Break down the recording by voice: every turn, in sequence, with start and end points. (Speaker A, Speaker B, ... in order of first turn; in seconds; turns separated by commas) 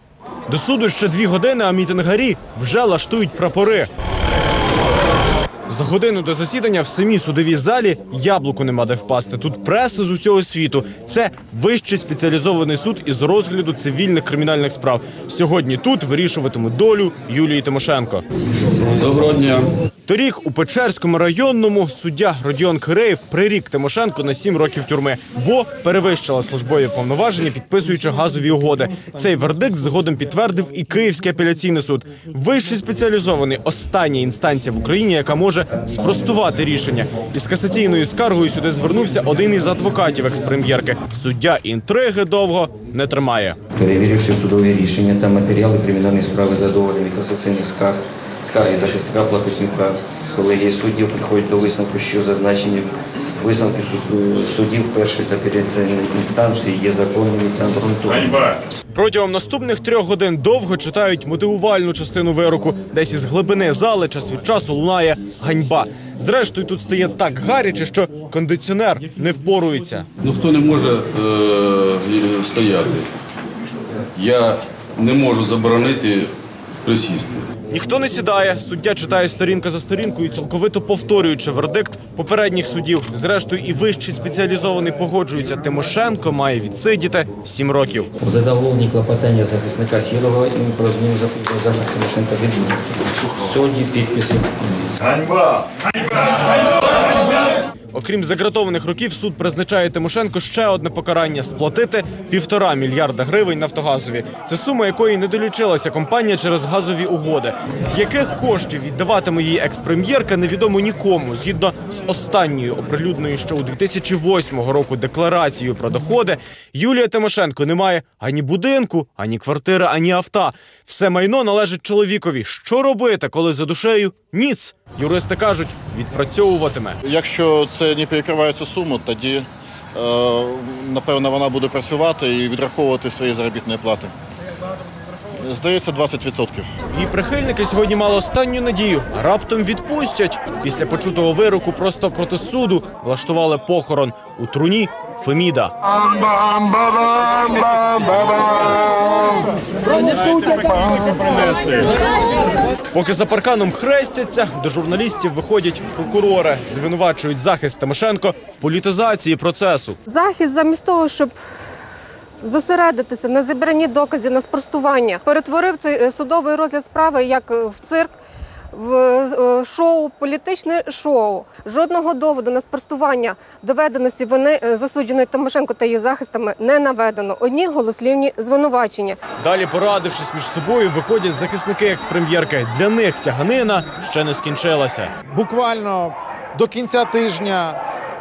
Speaker A: 0.5-3.9, Speaker A: 5.7-18.2, Speaker B: 18.8-19.7, Speaker A: 20.1-43.6, Speaker C: 43.7-58.5, Speaker A: 58.9-70.1, Speaker B: 70.2-73.1, Speaker B: 74.0-76.3, Speaker B: 76.8-77.5, Speaker A: 77.7-88.1, Speaker C: 88.2-95.4, Speaker A: 97.9-127.0, Speaker D: 127.0-134.1, Speaker D: 135.4-136.7, Speaker A: 136.9-145.7, Speaker D: 146.3-147.2, Speaker A: 149.9-150.8, Speaker A: 152.9-160.0, Speaker E: 160.1-161.3, Speaker E: 162.4-168.1, Speaker E: 168.7-179.2, Speaker A: 179.4-185.1, Speaker F: 185.2-187.8